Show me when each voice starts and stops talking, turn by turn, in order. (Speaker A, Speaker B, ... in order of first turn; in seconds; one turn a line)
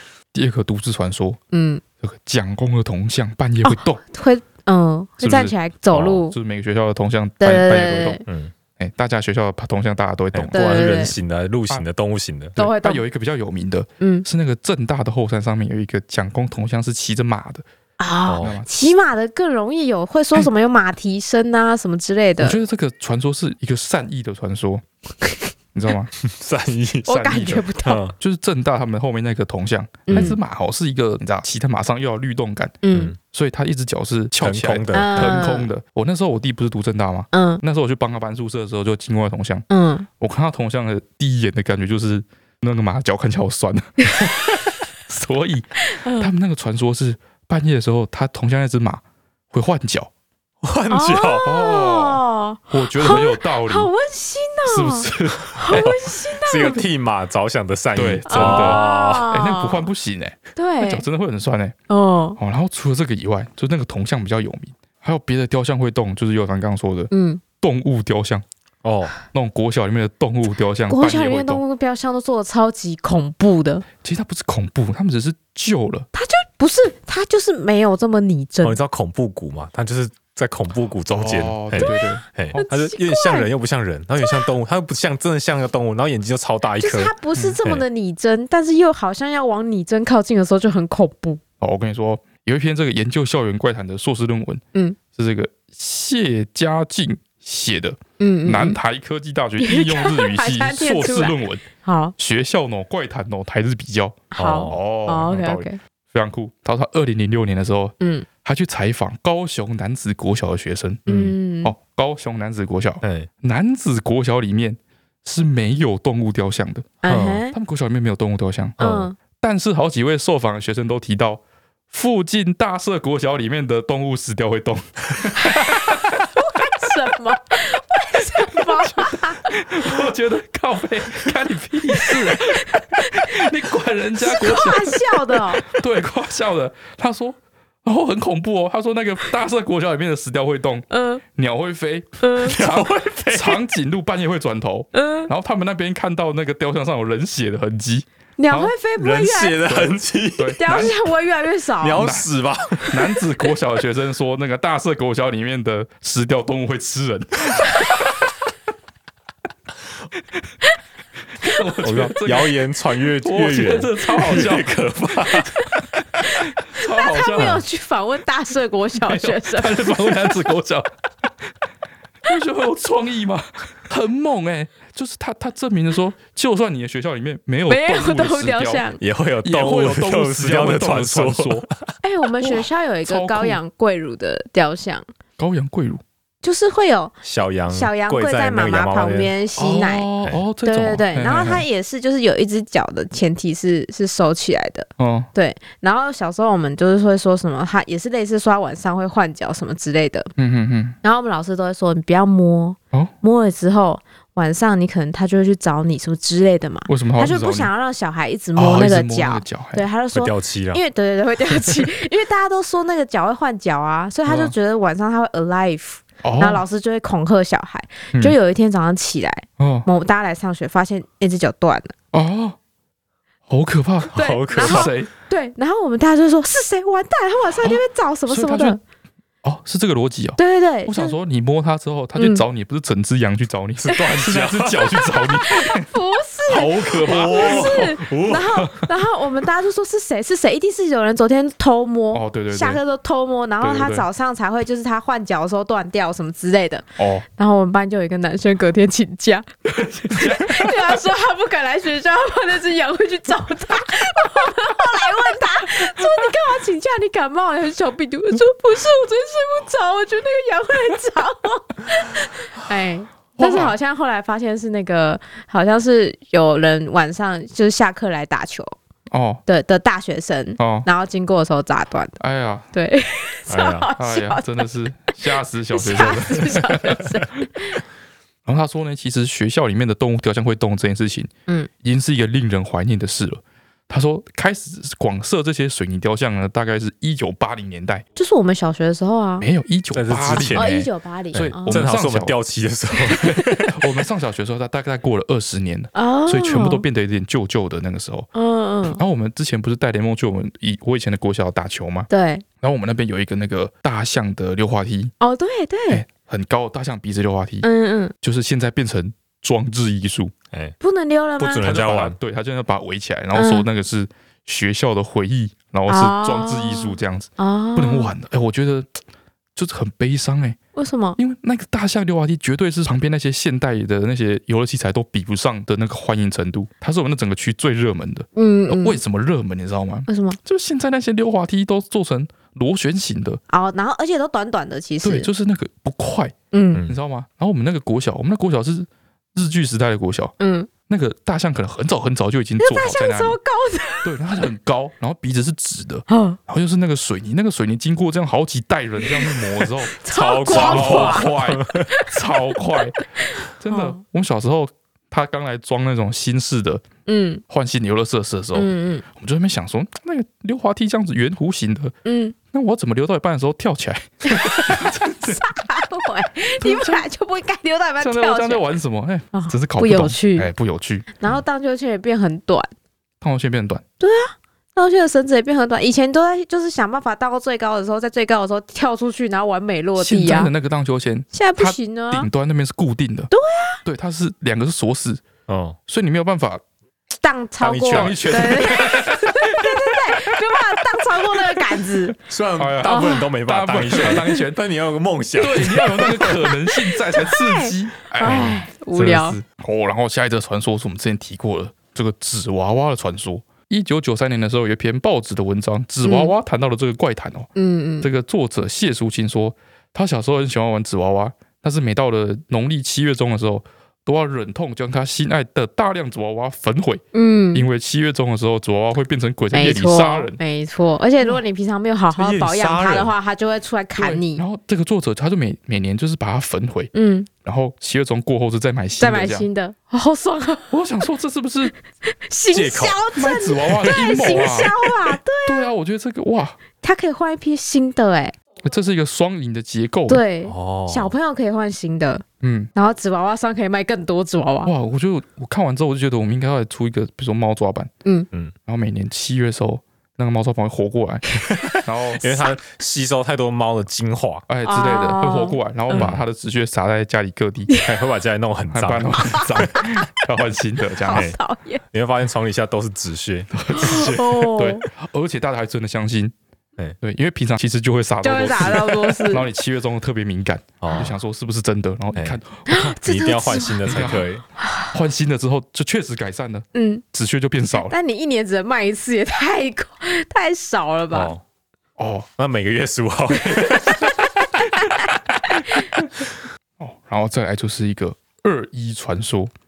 Speaker A: 0.3-1.4
Speaker B: 1.5-1.8
Speaker A: 2.0-4.0
Speaker B: 3.6-6.3
Speaker A: 5.2-8.2
Speaker B: 7.4-8.2
Speaker C: 8.2-8.5
Speaker A: 8.8-11.0
Speaker C: 10.3-12.6
Speaker B: 10.5-11.1
Speaker B: 12.6-13.0
Speaker A: 12.6-17.6
Speaker B: 14.0-14.2
Speaker B: 18.0-22.6
Speaker C: 18.3-18.6
Speaker A: 18.4-18.8
Speaker A: 22.4-24.8
Speaker A: 25.7-26.1
Speaker C: 26.2-28.1
Speaker B: 27.1-28.0
Speaker A: 27.1-39.6
Speaker B: 30.1-30.4
Speaker C: 30.1-30.4
Speaker B: 32.8-33.1
Speaker C: 34.4-35.4
Speaker B: 34.9-35.7
Speaker B: 37.3-37.6
Speaker B: 39.7-40.1
Speaker A: 40.2-44.1
Speaker A: 45.1-50.1
Speaker B: 45.8-46.3
Speaker C: 50.6-51.5
Speaker B: 50.9-56.8
Speaker A: 51.4-53.9
Speaker A: 54.6-56.0
Speaker C: 55.6-59.3
Speaker A: 57.9-61.8
Speaker B: 58.3-59.9
Speaker B: 60.5-61.0
Speaker B: 61.9-62.4
Speaker A: 62.4-68.4
Speaker B: 67.1-67.4
Speaker C: 68.8-69.1
Speaker A: 69.3-71.6
Speaker B: 70.9-73.8
Speaker A: 74.0-76.1
Speaker B: 76.1-78.8
Speaker C: 78.6-87.8
Speaker A: 81.1-82.6
Speaker B: 81.8-83.5
Speaker B: 84.2-84.5
Speaker B: 86.8-91.4
Speaker A: 91.6-94.6
Speaker A: 95.1-101.6
Speaker B: 98.2-98.8
Speaker B: 99.6-102.1
Speaker A: 102.2-111.1
Speaker B: 104.3-105.8
Speaker C: 104.4-104.8
Speaker B: 108.0-108.3
Speaker C: 111.1-111.3
Speaker B: 111.1-111.7
Speaker A: 111.6-117.0
Speaker C: 113.0-113.3
Speaker B: 117.0-117.5
Speaker C: 117.1-117.4
Speaker A: 117.5-118.8
Speaker C: 118.8-119.1
Speaker B: 118.8-119.2
Speaker A: 119.4-126.1
Speaker B: 125.3-125.8
Speaker B: 126.3-129.5
Speaker A: 128.4-148.7
Speaker B: 131.9-133.3
Speaker B: 134.2-135.7
Speaker B: 140.9-141.2
Speaker B: 142.2-142.6
Speaker C: 142.4-143.6
Speaker B: 144.9-145.3
Speaker B: 148.4-149.6
Speaker C: 149.0-150.6
Speaker A: 149.6-150.9
Speaker B: 150.6-152.1
Speaker C: 151.8-153.1
Speaker A: 151.9-152.3
Speaker A: 152.9-157.9
Speaker A: 161.4-162.6
Speaker C: 161.8-165.7
Speaker A: 163.1-165.5
Speaker A: 166.2-167.6
Speaker B: 166.2-170.1
Speaker C: 167.4-167.6
Speaker A: 169.0-170.9
Speaker A: 172.2-178.8
Speaker B: 177.7-179.0
Speaker C: 179.0-181.9
Speaker A: 179.4-181.7
Speaker B: 182.0-185.0
Speaker A: 182.4-183.6
Speaker A: 185.4-186.0
Speaker B: 186.4-187.1
Speaker C: 187.2-189.3
Speaker B: 187.7-190.1
Speaker A: 189.6-191.6
Speaker B: 190.6-200.3
Speaker A: 195.0-195.3
Speaker A: 200.4-201.0
Speaker B: 201.0-221.9
Speaker A: 206.9-207.7
Speaker A: 208.6-209.8
Speaker C: 210.1-210.8
Speaker A: 214.2-214.5
Speaker A: 216.2-216.6
Speaker A: 219.6-219.9
Speaker A: 222.1-222.6
Speaker A: 223.5-225.1
Speaker C: 224.1-224.9
Speaker B: 224.1-228.8
Speaker A: 227.6-228.8
Speaker A: 229.4-235.9
Speaker B: 230.4-231.2
Speaker B: 232.2-232.4
Speaker C: 233.8-235.0
Speaker B: 233.9-234.2
Speaker B: 235.2-249.4
Speaker A: 236.5-238.8
Speaker C: 237.0-238.5
Speaker A: 242.1-242.8
Speaker A: 243.6-244.1
Speaker A: 247.0-247.2
Speaker A: 249.8-250.7
Speaker B: 250.0-268.7
Speaker A: 263.4-263.7
Speaker A: 269.1-269.4
Speaker B: 269.4-272.2
Speaker A: 270.6-270.9
Speaker A: 272.2-272.7
Speaker B: 272.7-274.7
Speaker C: 273.5-273.9
Speaker A: 274.0-277.2
Speaker B: 275.7-277.8
Speaker A: 278.4-281.3
Speaker A: 281.8-288.0
Speaker B: 288.2-289.5
Speaker A: 289.4-292.4
Speaker C: 289.9-290.7
Speaker B: 290.5-291.9
Speaker C: 291.3-293.7
Speaker B: 293.1-293.5
Speaker A: 293.2-298.3
Speaker B: 295.9-296.8
Speaker B: 298.3-299.0
Speaker A: 298.9-302.1
Speaker B: 302.1-302.4
Speaker A: 302.6-305.1
Speaker B: 305.2-306.0
Speaker A: 305.9-307.7
Speaker B: 307.6-308.1
Speaker A: 308.2-310.3
Speaker B: 310.8-311.6
Speaker C: 311.4-312.1
Speaker A: 311.6-318.9
Speaker B: 313.3-313.6
Speaker B: 315.9-318.1
Speaker A: 319.6-320.6
Speaker B: 320.7-321.2
Speaker A: 321.2-333.4
Speaker B: 328.4-329.0
Speaker B: 330.1-330.4
Speaker B: 333.5-335.3
Speaker A: 335.0-336.3
Speaker B: 336.5-336.8
Speaker A: 336.9-340.3
Speaker B: 340.4-340.7
Speaker A: 340.9-343.4
Speaker B: 342.6-344.1
Speaker A: 344.0-356.8
Speaker B: 346.1-346.4
Speaker B: 349.9-351.3
Speaker C: 350.0-351.9
Speaker B: 353.2-354.0
Speaker B: 357.1-357.4
Speaker A: 357.5-361.9
Speaker B: 358.5-359.0
Speaker B: 362.0-362.3
Speaker A: 362.5-365.4
Speaker B: 364.3-368.6
Speaker A: 366.6-367.1
Speaker A: 368.0-371.2
Speaker B: 369.3-370.5
Speaker B: 371.2-372.7
Speaker A: 373.2-373.8
Speaker B: 374.0-380.5
Speaker A: 380.0-383.3
Speaker B: 381.3-382.3
Speaker B: 383.3-383.8
Speaker A: 383.8-385.2
Speaker C: 385.5-385.8
Speaker A: 385.9-386.6
Speaker B: 387.2-392.1
Speaker A: 387.6-390.4
Speaker C: 387.9-388.2
Speaker C: 392.3-396.4
Speaker A: 392.6-394.6
Speaker B: 392.8-393.3
Speaker A: 395.4-407.5
Speaker B: 396.7-399.4
Speaker B: 406.0-406.3
Speaker B: 407.6-408.1
Speaker A: 408.0-420.4
Speaker B: 417.1-417.6
Speaker B: 419.5-424.4
Speaker C: 422.1-423.1
Speaker A: 423.9-426.9
Speaker B: 426.9-427.3
Speaker A: 427.4-429.5
Speaker B: 429.0-430.7
Speaker A: 430.7-431.7
Speaker B: 432.1-435.7
Speaker C: 432.5-433.0
Speaker A: 433.1-434.9
Speaker A: 435.4-436.6
Speaker B: 436.8-438.3
Speaker A: 438.6-440.2
Speaker B: 440.1-442.2
Speaker C: 440.4-441.1
Speaker A: 442.4-442.7
Speaker B: 442.7-444.7
Speaker A: 444.6-447.9
Speaker A: 448.6-452.4
Speaker C: 451.3-454.4
Speaker A: 454.5-457.7
Speaker B: 454.6-456.1
Speaker C: 455.9-456.2
Speaker C: 457.8-459.6
Speaker A: 458.7-461.3
Speaker B: 459.2-460.0
Speaker B: 461.0-461.8
Speaker C: 461.9-464.2
Speaker A: 463.5-466.3
Speaker B: 463.7-464.8
Speaker A: 467.0-472.9
Speaker B: 468.2-469.4
Speaker C: 470.8-471.1
Speaker B: 472.7-474.9
Speaker C: 472.9-474.4
Speaker A: 473.9-474.3
Speaker A: 474.9-477.9
Speaker B: 476.7-477.0
Speaker B: 477.7-481.3
Speaker C: 481.1-481.4
Speaker A: 482.0-482.3
Speaker C: 482.4-484.3
Speaker B: 485.5-485.9
Speaker A: 486.8-489.5